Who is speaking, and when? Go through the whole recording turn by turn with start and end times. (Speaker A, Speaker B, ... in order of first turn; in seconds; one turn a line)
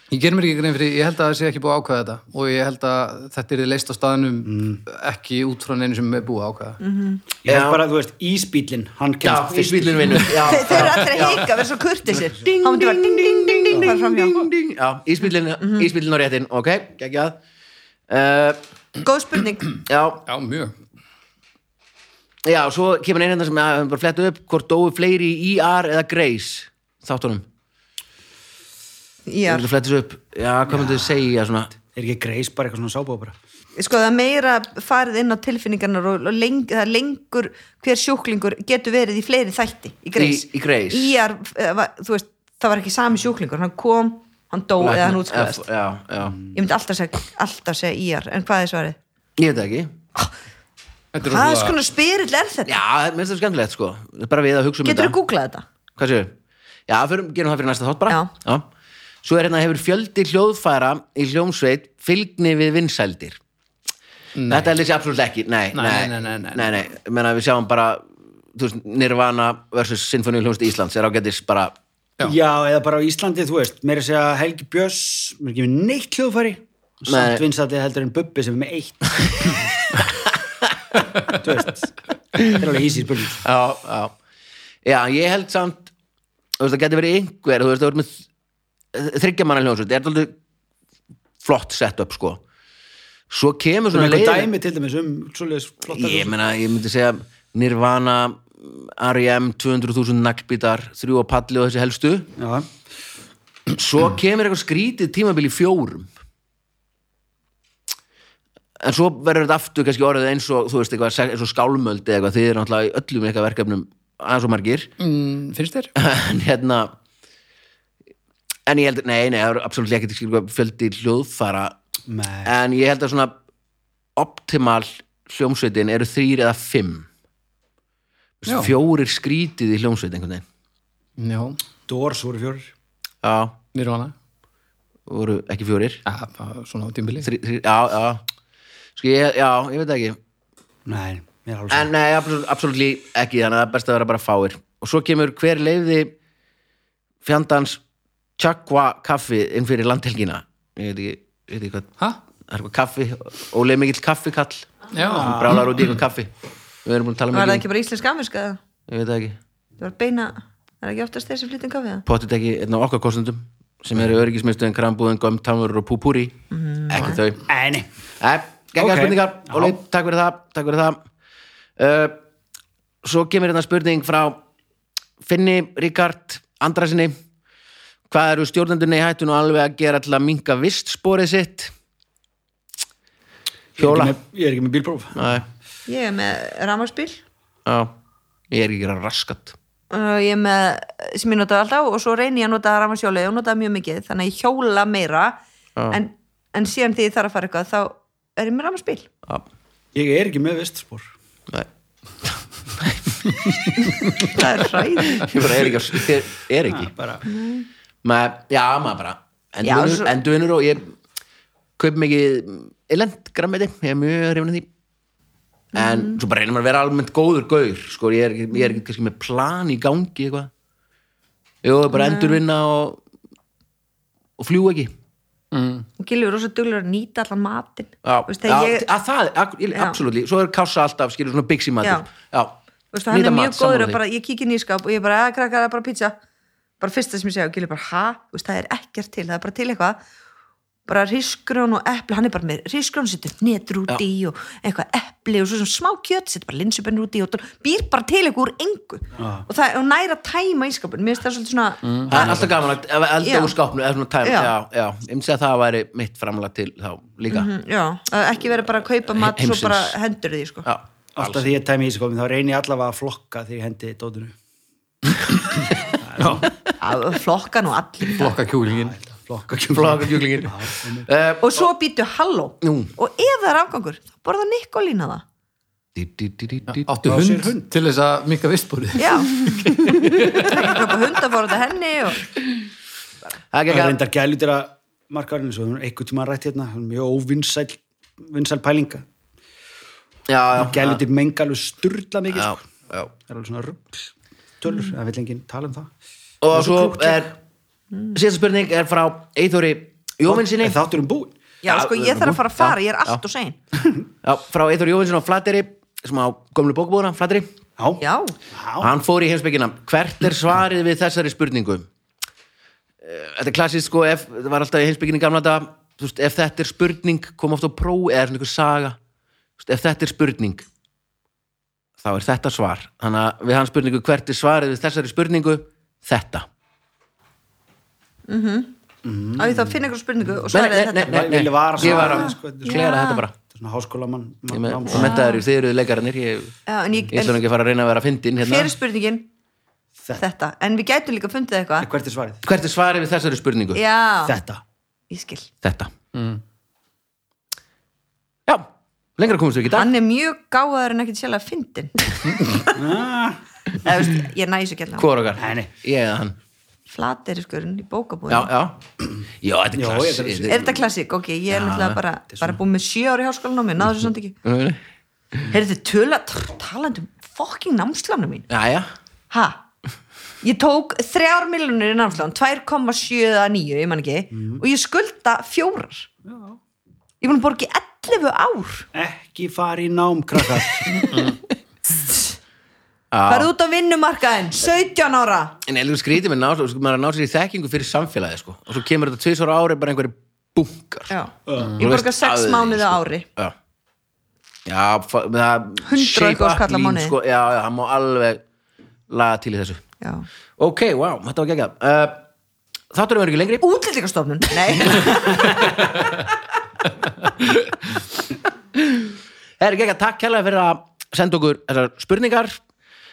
Speaker A: 0.1-6.8
Speaker B: 4.4-4.8
Speaker C: 6.8-7.2
Speaker B: 7.4-10.6
Speaker D: 7.5-7.8
Speaker D: 9.2-11.5
Speaker C: 10.4-14.5
Speaker D: 12.2-17.4
Speaker D: 18.1-18.6
Speaker C: 19.0-19.8
Speaker D: 19.9-20.2
Speaker A: 20.2-20.8
Speaker D: 22.4-27.4
Speaker C: 29.3-29.7
Speaker D: 29.4-31.7
Speaker B: 30.7-31.1
Speaker B: 31.9-33.4
Speaker C: 33.8-45.6
Speaker D: 40.1-41.2
Speaker D: 44.8-46.4
Speaker C: 46.5-49.0
Speaker D: 49.4-49.9
Speaker A: 51.1-51.8
Speaker C: 51.2-52.8
Speaker D: 52.6-55.2
Speaker C: 54.8-55.6
Speaker D: 56.0-56.3
Speaker D: 56.9-58.7
Speaker D: 59.2-63.4
Speaker A: 64.3-64.7
Speaker D: 64.5-71.8
Speaker A: 65.7-66.7
Speaker B: 72.2-79.5
Speaker D: 77.0-77.4
Speaker B: 81.3-83.4
Speaker D: 83.4-84.2
Speaker D: 84.8-85.9
Speaker D: 86.6-88.2
Speaker D: 88.9-90.3
Speaker D: 91.4-92.4
Speaker D: 93.3-94.5
Speaker B: 93.9-96.3
Speaker D: 95.9-102.3
Speaker B: 102.3-102.7
Speaker D: 103.7-106.1
Speaker D: 108.8-114.9
Speaker A: 115.0-115.9
Speaker D: 116.0-116.9
Speaker D: 118.7-121.8
Speaker B: 122.1-122.5
Speaker D: 122.4-123.3
Speaker D: 124.2-127.1
Speaker D: 128.4-130.4
Speaker A: 128.4-128.7
Speaker A: 131.2-131.6
Speaker B: 131.9-132.7
Speaker D: 133.2-133.6
Speaker A: 133.7-134.1
Speaker D: 135.1-136.0
Speaker A: 136.1-137.3
Speaker D: 137.2-138.2
Speaker D: 138.9-140.2
Speaker B: 140.8-141.9
Speaker D: 141.7-146.1
Speaker D: 147.2-147.8
Speaker D: 148.4-151.9
Speaker D: 152.5-156.3
Speaker A: 154.9-155.3
Speaker B: 155.1-155.7
Speaker D: 156.8-157.6
Speaker C: 157.3-158.6
Speaker D: 158.9-159.4
Speaker C: 159.8-162.0
Speaker D: 162.1-167.4
Speaker C: 166.5-167.2
Speaker B: 167.5-167.9
Speaker D: 168.2-171.0
Speaker B: 168.8-169.8
Speaker D: 171.8-172.2
Speaker D: 173.0-174.4
Speaker D: 175.2-177.1
Speaker D: 178.1-181.7
Speaker D: 183.8-184.2
Speaker B: 183.8-185.4
Speaker D: 185.1-185.4
Speaker C: 185.9-187.2
Speaker D: 187.7-187.9
Speaker D: 188.5-189.6
Speaker C: 189.9-195.4
Speaker C: 195.9-199.1
Speaker B: 199.9-201.1
Speaker D: 202.2-203.5
Speaker C: 204.1-205.4
Speaker D: 205.1-206.9
Speaker B: 206.7-207.3
Speaker C: 207.3-207.7
Speaker D: 208.0-210.9
Speaker C: 209.6-210.1
Speaker D: 211.8-214.7
Speaker C: 215.7-216.2
Speaker D: 215.7-220.5
Speaker D: 221.6-223.0
Speaker C: 221.9-222.4
Speaker D: 224.4-224.9
Speaker A: 225.5-225.9
Speaker C: 226.0-228.8
Speaker D: 228.0-232.6
Speaker C: 229.7-230.0
Speaker C: 232.9-236.2
Speaker D: 233.1-234.0
Speaker C: 236.8-240.0
Speaker C: 240.8-252.5
Speaker B: 249.2-249.4
Speaker A: 251.8-252.4
Speaker D: 252.1-257.5
Speaker C: 253.2-253.5
Speaker C: 254.2-254.5
Speaker C: 257.3-260.6
Speaker D: 259.1-259.9
Speaker D: 260.6-261.5
Speaker B: 261.1-264.3
Speaker B: 265.8-266.5
Speaker C: 266.8-268.3
Speaker A: 268.1-268.9
Speaker B: 268.7-271.1
Speaker D: 269.7-271.7
Speaker C: 271.4-275.2
Speaker D: 272.6-272.9
Speaker D: 275.9-276.9
Speaker A: 276.7-280.9
Speaker B: 277.0-277.6
Speaker C: 279.0-282.3
Speaker D: 283.5-284.0
Speaker B: 283.7-289.1
Speaker D: 290.3-291.0
Speaker B: 290.5-292.6
Speaker D: 292.3-293.1
Speaker B: 293.2-295.9
Speaker D: 296.4-297.3
Speaker B: 296.5-297.2
Speaker D: 298.1-300.8
Speaker B: 300.3-301.3
Speaker C: 301.6-303.6
Speaker D: 301.7-303.2
Speaker D: 304.2-307.5
Speaker B: 307.8-308.9
Speaker C: 308.0-308.4
Speaker D: 308.8-311.9
Speaker D: 313.0-319.0
Speaker D: 319.6-320.6
Speaker D: 322.0-326.4
Speaker C: 328.3-328.7
Speaker B: 329.0-329.8
Speaker C: 329.4-331.3
Speaker D: 330.5-333.3
Speaker B: 331.0-332.9
Speaker C: 331.8-333.2
Speaker B: 333.5-335.2
Speaker D: 334.5-336.5
Speaker C: 334.9-335.4
Speaker C: 336.7-337.4
Speaker D: 337.1-338.7
Speaker C: 338.4-339.3
Speaker C: 340.2-341.9
Speaker B: 341.8-342.4
Speaker D: 342.4-343.8
Speaker C: 343.7-344.4
Speaker B: 344.2-344.6
Speaker C: 345.1-345.5
Speaker D: 345.6-345.9
Speaker A: 346.1-346.4
Speaker D: 348.5-349.9
Speaker C: 349.8-352.8
Speaker B: 352.7-353.4
Speaker C: 353.7-355.1
Speaker D: 355.0-356.4
Speaker B: 355.4-355.7
Speaker C: 356.9-358.5
Speaker D: 358.3-358.8
Speaker D: 359.4-360.7
Speaker B: 359.7-360.7
Speaker C: 360.5-364.4
Speaker D: 361.5-362.0
Speaker D: 364.4-364.8
Speaker C: 365.5-368.5
Speaker D: 368.5-368.9
Speaker C: 369.3-369.6
Speaker C: 370.4-376.1
Speaker B: 374.3-374.6
Speaker B: 376.2-376.6
Speaker C: 377.2-378.9
Speaker B: 378.9-380.9
Speaker C: 381.9-382.3
Speaker D: 383.1-383.5
Speaker C: 383.3-385.6
Speaker D: 385.6-391.1
Speaker C: 391.1-393.2
Speaker B: 391.5-391.8
Speaker D: 391.8-393.5
Speaker D: 394.6-398.4
Speaker C: 395.9-397.1
Speaker D: 399.1-399.8
Speaker C: 400.0-400.2
Speaker D: 400.6-402.2
Speaker D: 402.9-403.7
Speaker C: 403.6-405.9
Speaker D: 404.8-406.0
Speaker D: 409.6-412.6